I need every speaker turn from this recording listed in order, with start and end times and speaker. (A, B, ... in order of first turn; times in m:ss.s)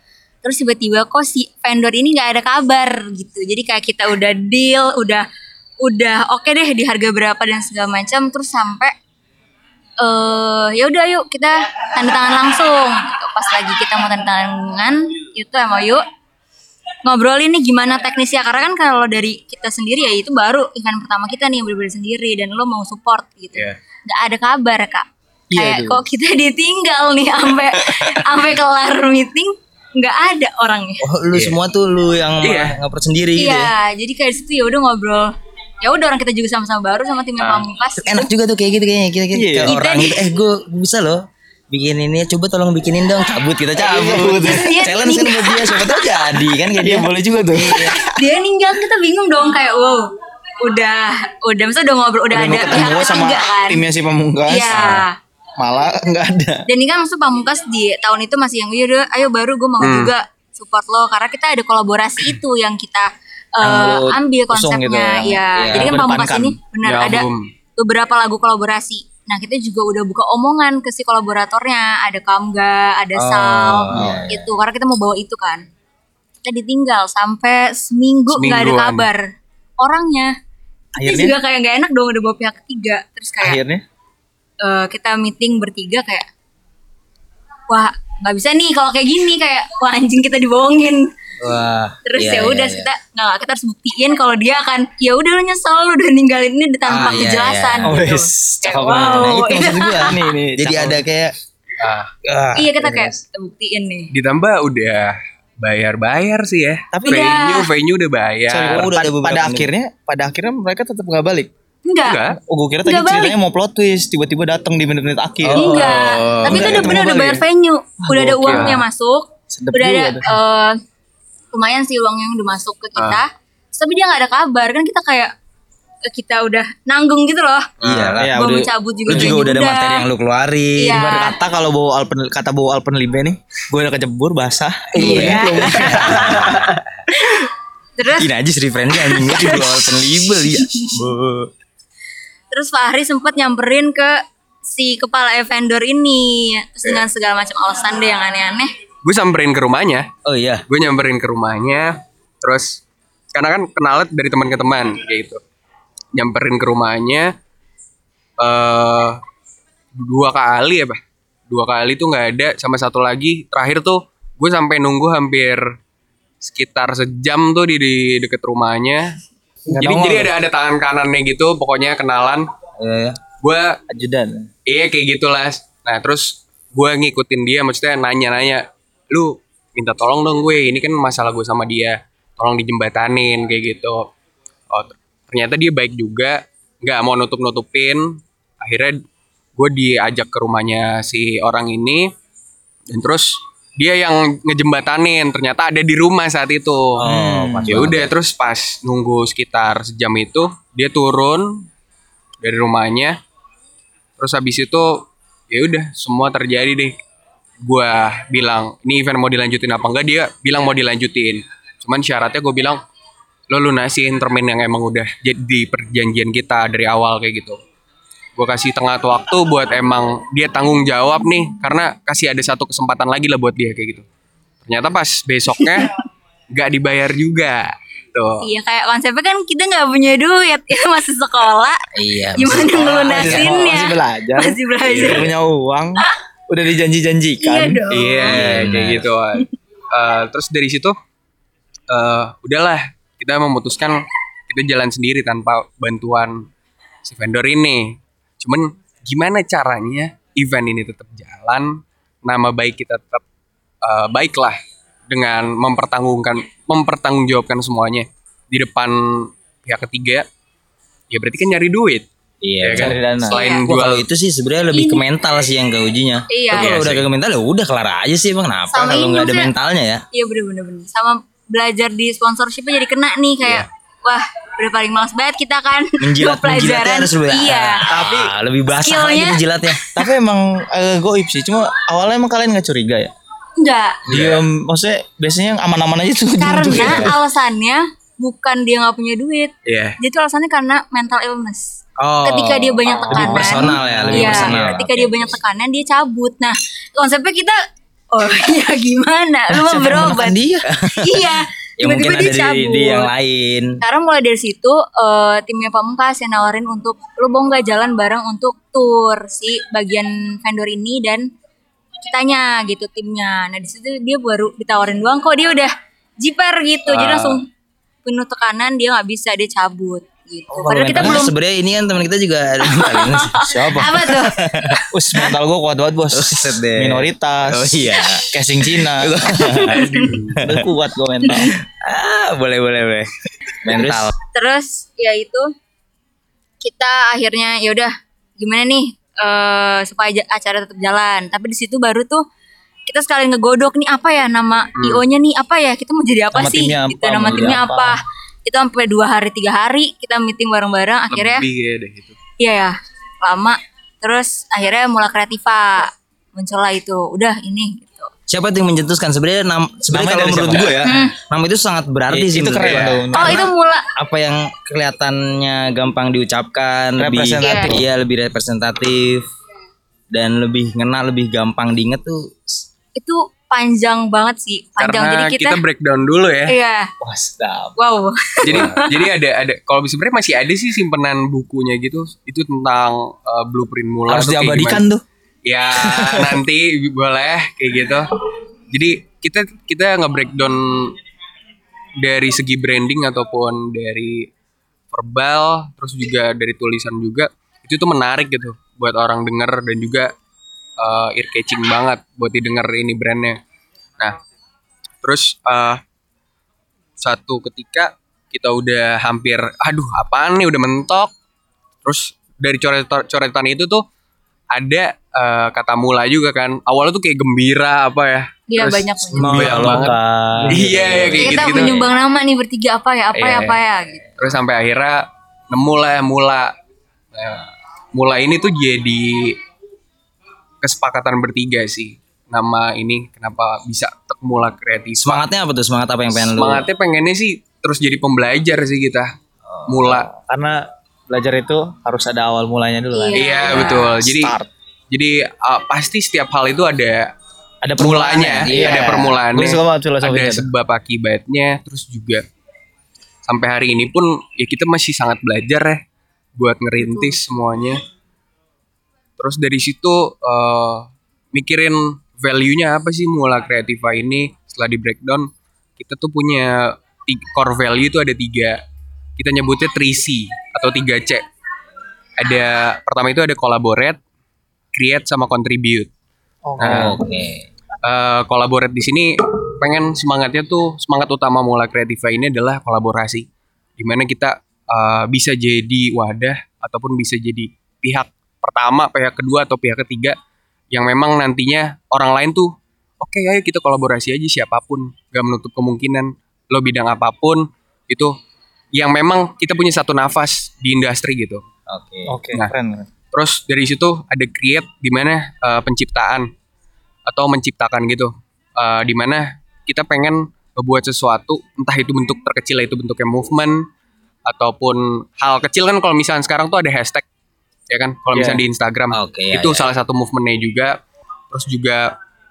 0:00.4-0:05.2 A
0:05.8-0:08.9 A
0:10.0-0:16.0 A
0:17.0-0:31.0 A
0:25.5-0:26.0 B
0:27.9-0:28.2 C
0:31.0-0:33.7 D
0:31.3-0:31.6 C
0:32.4-0:32.8 C
0:33.4-0:35.3 A
0:35.8-0:38.3 A
0:37.4-0:37.6 C
0:38.0-0:48.0 D
0:39.3-0:39.7 B
0:39.7-0:40.3 A
0:43.8-0:44.8 B
0:44.1-0:46.4 A
0:46.8-0:48.1 B
0:48.1-0:50.1 A
0:50.6-0:53.8 A
0:52.3-0:55.0 B
0:54.5-0:55.2 A
0:55.6-0:56.6 B
0:56.7-1:15.6 A
0:59.8-1:00.1 C
1:03.6-1:06.6 B
1:05.5-1:06.0 D
1:06.8-1:07.5 C
1:13.2-1:14.5 D
1:13.9-1:14.2 B
1:16.4-1:19.2 A
1:18.3-1:19.1 C
1:19.8-1:20.3 A
1:21.0-1:21.4 B
1:21.0-1:23.6 A
1:23.4-1:23.8 B
1:24.6-1:26.3 A
1:27.7-1:31.1 A
1:31.4-1:32.9 D
1:32.0-1:40.1 A
1:36.8-1:38.0 D
1:37.8-1:41.2 B
1:38.9-1:39.5 D
1:40.6-1:41.3 D
1:41.8-1:42.1 C
1:42.2-1:43.2 D
1:42.5-1:44.1 A
1:44.1-1:48.9 C
1:46.9-1:47.3 B
1:47.1-1:47.7 A
1:48.5-1:51.5 B
1:48.6-1:49.7 D
1:51.8-1:52.2 A
1:52.0-1:52.4 C
1:52.3-1:57.4 B
1:52.8-1:53.4 A
1:55.4-1:57.1 D
1:55.5-2:00.8 A
1:58.0-1:58.8 B
1:58.4-1:58.8 C
1:59.5-2:00.4 B
2:01.5-2:05.3 A
2:03.0-2:03.2 C
2:06.0-2:07.7 A
2:07.8-2:08.2 C
2:07.8-2:08.3 D
2:08.1-2:09.4 B
2:08.3-2:10.1 A
2:09.1-2:11.0 D
2:10.8-2:11.4 A
2:10.9-2:16.6 B
2:14.9-2:16.8 D
2:15.0-2:16.6 A
2:17.1-2:18.3 A
2:18.2-2:21.5 D
2:18.9-2:21.0 A
2:22.5-2:28.7 A
2:29.0-2:30.1 C
2:30.2-2:30.6 D
2:30.7-2:32.8 C
2:33.3-2:35.4 C
2:36.1-2:37.3 C
2:38.4-2:39.2 C
2:40.0-2:41.0 C
2:41.5-2:45.6 C
2:46.4-2:49.2 C
2:49.7-2:50.3 B
2:49.8-2:52.5 C
2:52.8-2:53.2 D
2:53.4-2:53.8 C
2:53.9-2:54.5 B
2:54.7-3:04.1 C
3:04.7-3:09.0 C
3:09.6-3:12.1 C
3:12.9-3:17.0 C
3:17.0-3:18.1 D
3:17.0-3:17.9 B
3:17.7-3:21.7 C
3:22.4-3:23.2 C
3:24.2-3:26.9 C
3:27.6-3:32.8 C
3:33.5-3:37.6 C
3:38.4-3:44.0 C
3:44.6-3:46.0 C
3:46.5-3:48.5 C
3:48.4-3:51.8 A
3:51.9-3:53.6 D
3:52.3-3:55.3 A
3:52.8-3:57.8 B
3:54.9-3:55.1 C
3:57.4-3:58.4 A
3:57.9-4:00.9 C
3:58.2-3:59.1 D
4:01.9-4:06.4 C
4:07.0-4:13.2 C
4:13.8-4:14.6 C
4:15.1-4:20.2 C
4:21.1-4:22.0 C
4:22.4-4:23.0 D
4:22.6-4:24.1 C
4:22.7-4:23.4 B
4:23.3-4:23.6 A
4:23.7-4:30.0 D
4:24.7-4:25.0 A
4:26.3-4:26.8 A
4:26.5-4:27.1 C
4:28.7-4:29.5 A
4:30.1-4:37.8 A
4:36.0-4:39.8 D
4:37.8-4:38.3 B
4:38.8-4:39.9 A
4:39.9-4:43.1 B
4:43.6-4:44.0 A
4:44.1-4:47.2 B
4:44.1-4:44.3 D
4:44.1-4:44.4 C
4:46.4-4:51.7 A
4:46.8-4:47.1 D
4:49.6-4:50.0 C
4:52.0-4:55.4 D
4:52.2-4:57.6 A
4:53.1-4:54.7 B
4:58.1-5:03.1 A
4:59.5-5:00.7 B
5:00.7-5:03.8 D
5:03.8-5:11.3 A
5:12.0-5:17.4 A
5:16.9-5:17.3 C
5:18.0-5:21.3 A
5:20.5-5:24.8 D
5:20.9-5:21.2 B
5:22.6-5:24.8 A
5:23.4-5:24.0 B
5:24.9-5:29.8 B
5:26.1-5:30.7 D
5:29.5-5:30.1 A
5:29.7-5:30.4 C
5:30.4-5:31.5 B
5:31.2-5:31.5 A
5:31.3-5:34.1 D
5:33.7-5:34.0 B
5:34.3-5:35.5 A
5:36.6-5:42.2 A
5:42.9-5:51.4 A
5:44.8-5:45.0 C
5:46.3-5:48.0 B
5:51.1-5:52.2 C
5:52.4-5:58.1 A
5:58.3-6:03.4 D
5:59.9-6:00.8 B
6:00.8-6:01.1 A
6:02.1-6:03.5 B
6:02.5-6:03.0 C
6:03.1-6:03.9 A
6:04.0-6:09.3 D
6:07.0-6:07.9 B
6:07.4-6:07.7 A
6:10.1-6:12.6 D
6:13.0-6:15.6 A
6:14.8-6:16.5 C
6:16.5-6:16.9 A
6:17.0-6:17.8 B
6:17.8-6:19.0 A
6:18.4-6:24.8 C
6:24.1-6:25.0 B
6:25.4-6:28.1 C
6:25.8-6:26.4 B
6:28.7-6:31.0 C
6:32.0-6:34.3 C
6:34.9-6:40.1 C
6:40.8-6:43.4 C
6:45.0-6:45.8 C
6:47.0-6:51.1 C
6:51.8-6:53.8 C
6:54.5-7:00.0 C
6:58.5-6:59.7 A
6:59.2-7:01.9 D
6:59.7-7:01.2 B
7:00.5-7:01.8 C
7:01.2-7:04.2 A
7:03.1-7:03.6 C
7:04.2-7:06.5 C
7:07.1-7:09.4 C
7:10.6-7:15.2 C
7:15.0-7:16.7 D
7:16.1-7:19.1 C
7:19.4-7:19.9 D
7:19.7-7:20.1 C
7:20.1-7:24.5 B
7:22.9-7:23.8 A
7:23.1-7:24.3 C
7:24.9-7:27.1 C
7:27.6-7:30.5 B
7:27.8-7:32.2 C
7:28.4-7:29.0 D
7:33.2-7:35.8 C
7:36.4-7:37.8 C
7:36.8-7:37.1 A
7:39.2-7:48.6 C
7:49.2-7:51.2 C
7:52.2-7:54.0 C
7:54.7-7:55.9 C
7:56.4-7:57.0 B
7:56.6-7:57.0 C
7:56.6-7:57.4 D
7:57.8-8:03.2 C
8:03.8-8:10.2 C
8:10.7-8:18.1 C
8:18.7-8:21.4 C
8:21.7-8:22.1 D
8:22.1-8:22.9 B
8:23.1-8:26.3 C
8:27.0-8:33.6 C
8:34.3-8:37.0 C
8:37.7-8:40.8 C
8:38.1-8:38.4 B
8:38.9-8:39.7 D
8:41.3-8:41.9 C